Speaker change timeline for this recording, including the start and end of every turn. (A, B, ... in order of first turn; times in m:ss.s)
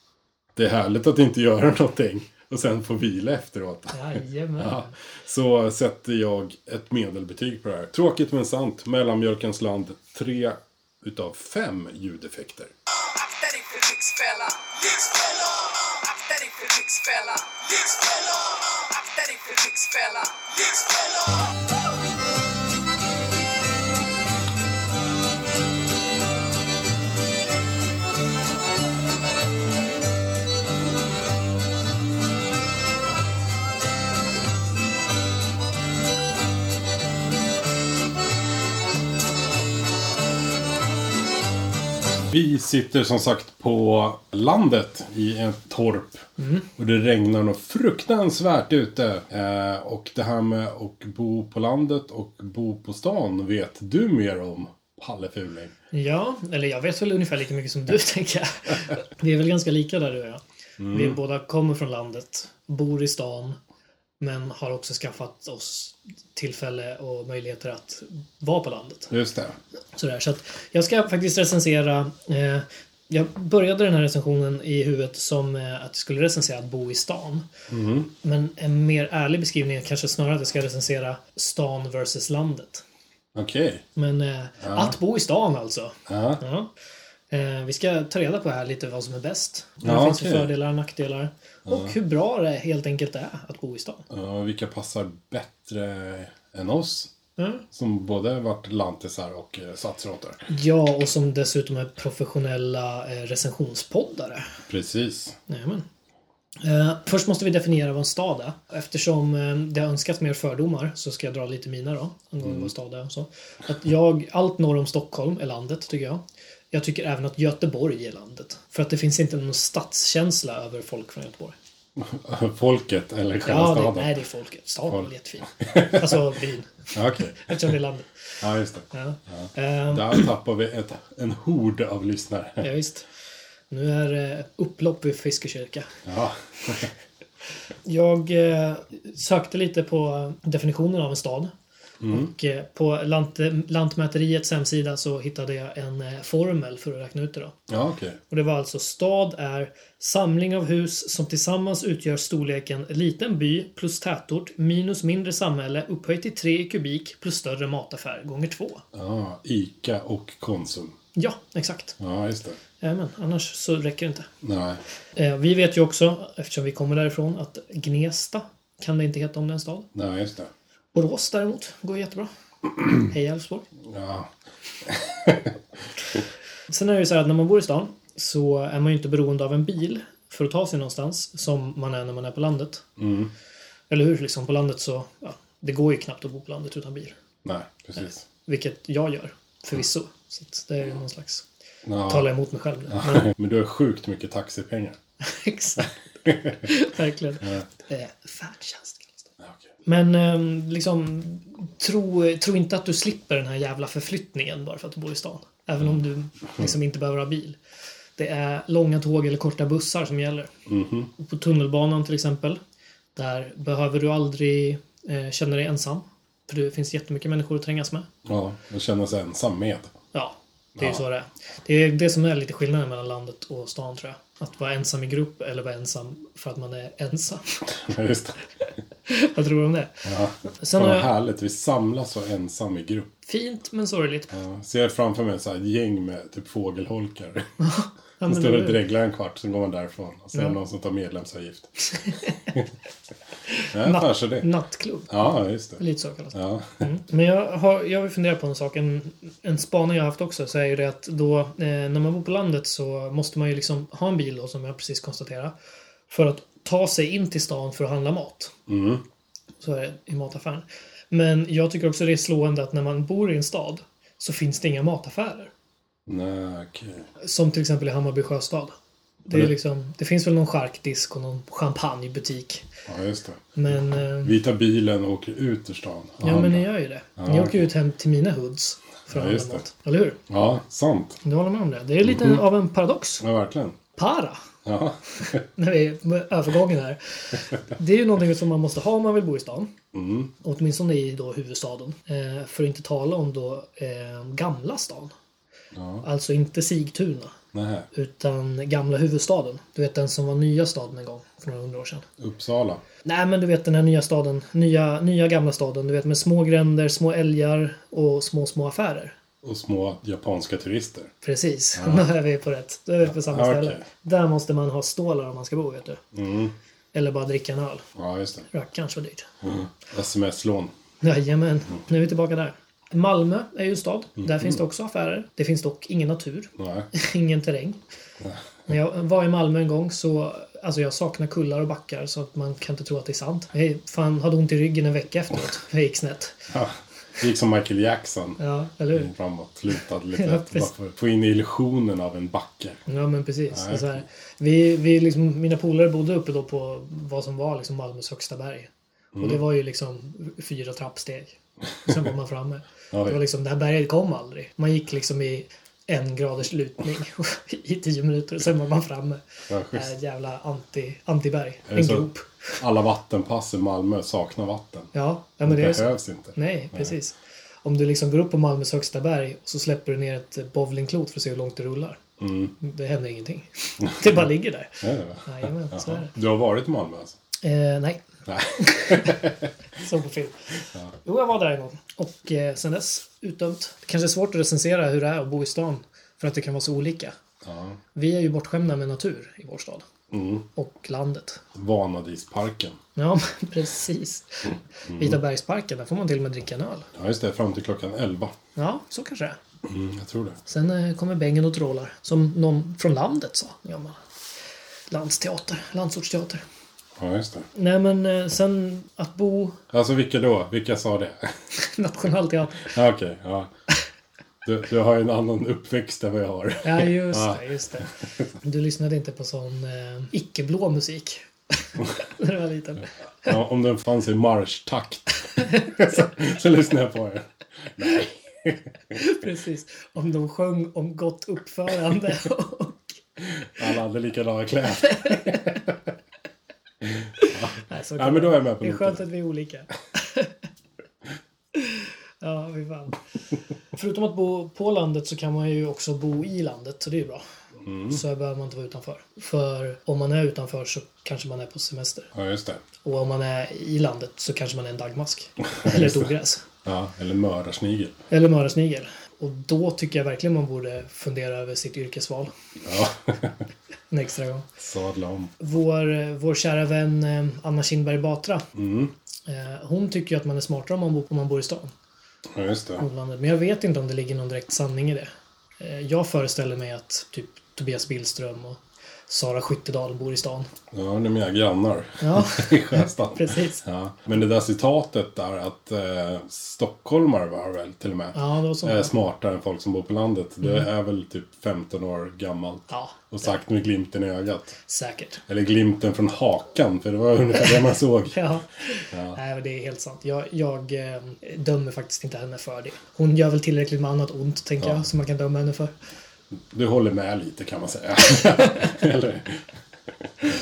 0:00.6-0:12.7 A
0:03.9-0:04.9 B
0:13.0-0:21.5 C
0:42.3-0:46.3 A
0:46.4-0:46.7 B
0:46.8-0:55.7 A
0:55.9-1:03.6 B
1:00.8-1:01.2 A
1:04.2-1:09.1 B
1:09.1-1:09.6 A
1:10.0-1:17.5 B
1:17.7-1:18.1 A
1:18.2-1:22.8 B
1:23.4-1:23.8 A
1:24.0-1:26.7 B
1:24.6-1:25.0 A
1:26.1-1:26.4 A
1:27.3-1:34.1 B
1:29.8-1:30.5 A
1:31.7-1:31.9 A
1:34.1-1:37.1 A
1:37.4-1:37.6 B
1:37.7-1:40.4 A
1:40.5-1:44.6 B
1:44.7-1:45.4 A
1:45.5-1:45.9 B
1:46.6-2:01.6 B
1:52.4-1:52.7 A
2:02.0-2:04.1 A
2:03.4-2:08.4 B
2:04.9-2:06.2 A
2:06.9-2:07.8 A
2:08.4-2:12.7 A
2:08.9-2:10.3 B
2:12.6-2:13.1 B
2:13.7-2:16.0 B
2:16.1-2:16.9 A
2:17.8-2:21.5 B
2:22.0-2:22.3 A
2:22.1-2:27.6 B
2:27.7-2:28.2 A
2:28.3-2:38.8 B
2:38.9-2:40.9 A
2:41.2-2:42.0 B
2:42.0-2:42.6 A
2:42.8-2:44.3 B
2:44.4-2:44.8 A
2:45.2-2:49.9 B
2:49.9-2:50.5 A
2:50.9-2:52.3 B
2:52.9-2:53.6 B
2:53.8-2:54.3 A
2:54.8-2:55.6 A
2:56.7-3:02.8 B
3:03.0-3:03.3 A
3:03.9-3:07.2 B
3:07.4-3:08.2 A
3:08.4-3:11.4 B
3:11.8-3:12.3 A
3:12.1-3:13.3 B
3:12.9-3:15.0 A
3:15.2-3:15.9 B
3:16.3-3:16.6 A
3:16.5-3:19.3 B
3:19.4-3:19.7 A
3:19.8-3:27.6 B
3:28.2-3:30.5 B
3:30.7-3:31.1 A
3:31.2-3:32.6 B
3:33.2-3:38.1 B
3:38.2-3:39.9 A
3:40.1-3:47.7 B
3:40.8-3:41.0 A
3:47.7-3:48.4 A
3:49.1-3:50.1 B
3:50.0-3:53.1 A
3:50.6-3:51.1 B
3:53.2-3:54.3 B
3:54.3-3:57.5 A
3:57.6-3:58.8 B
3:58.3-4:01.7 A
4:01.9-4:02.5 B
4:03.5-4:15.5 B
4:03.7-4:04.5 A
4:05.1-4:05.8 A
4:06.3-4:06.8 A
4:16.1-4:18.5 B
4:18.7-4:19.0 A
4:19.6-4:25.5 B
4:26.1-4:27.1 A
4:27.2-4:32.7 B
4:32.9-4:33.4 A
4:33.6-4:34.4 B
4:34.2-4:36.6 A
4:36.2-4:40.2 B
4:37.2-4:37.6 A
4:39.1-4:39.6 A
4:40.3-4:41.2 A
4:41.2-4:43.2 B
4:42.0-4:42.4 A
4:43.2-4:43.8 A
4:44.0-4:44.4 B
4:44.6-4:45.4 A
4:45.2-4:49.7 B
4:49.9-4:50.3 A
4:50.4-4:55.1 B
4:55.7-4:56.0 A
4:56.0-4:57.4 B
4:57.5-4:57.9 A
4:57.9-5:02.1 B
5:02.2-5:02.8 A
5:03.0-5:09.2 B
5:09.4-5:11.1 A
5:11.2-5:16.0 B
5:11.8-5:12.1 A
5:13.0-5:13.8 A
5:16.1-5:16.5 A
5:16.9-5:17.9 B
5:17.9-5:18.5 A
5:18.5-5:19.3 B
5:19.4-5:20.7 A
5:21.0-5:27.8 B
5:24.2-5:24.6 A
5:26.6-5:26.9 A
5:28.7-5:36.5 B
5:36.5-5:38.4 A
5:38.4-5:39.1 B
5:38.9-5:42.8 A
5:40.1-5:40.7 B
5:42.9-6:02.6 B
5:43.5-5:44.0 A
5:49.1-5:49.4 A
5:52.9-5:53.2 A
5:59.5-5:59.9 A
6:01.7-6:02.1 A
6:02.6-6:04.9 A
6:04.9-6:12.0 B
6:05.4-6:06.9 A
6:12.2-6:12.5 A
6:12.6-6:16.1 B
6:14.8-6:17.2 A
6:17.4-6:18.0 B
6:18.3-6:19.5 A
6:18.6-6:27.2 B
6:27.4-6:27.8 A
6:27.9-6:29.9 B
6:30.1-6:30.5 A
6:30.6-6:31.4 B
6:31.5-6:32.8 A
6:33.0-6:36.9 B
6:34.9-6:35.2 A
6:36.9-6:38.3 A
6:38.6-6:39.4 B
6:39.6-6:40.4 A
6:40.4-6:44.0 B
6:44.9-6:46.4 B
6:47.0-6:47.5 A
6:47.5-6:49.6 B
6:49.7-6:51.4 A
6:51.5-6:52.8 B
6:52.6-6:53.5 A
6:54.4-6:57.4 A
6:56.6-7:02.9 B
7:03.2-7:09.0 A
7:05.4-7:06.1 B
7:08.9-7:13.0 B
7:13.4-7:15.8 A
7:14.9-7:15.6 B
7:16.8-7:19.0 A
7:17.2-7:20.3 B
7:21.5-7:23.0 B
7:23.7-7:27.2 B
7:27.6-7:28.0 A
7:27.9-7:32.1 B
7:32.1-7:32.6 A
7:32.8-7:36.4 B
7:35.6-7:36.1 A
7:36.6-7:38.0 A
7:38.1-7:42.3 B
7:42.6-7:43.4 A
7:43.9-7:44.5 B
7:44.6-7:45.3 A
7:45.4-7:48.4 B
7:48.6-7:48.9 A
7:49.3-7:51.7 B
7:52.3-7:52.8 A
7:52.8-8:00.5 B
8:00.7-8:14.6 A
8:02.0-8:03.6 B
8:08.1-8:08.9 B
8:12.7-8:13.3 B
8:14.7-8:15.2 B
8:15.3-8:18.2 A
8:17.4-8:17.6 B
8:18.1-8:25.7 B
8:18.9-8:19.2 A
8:26.5-8:29.4 A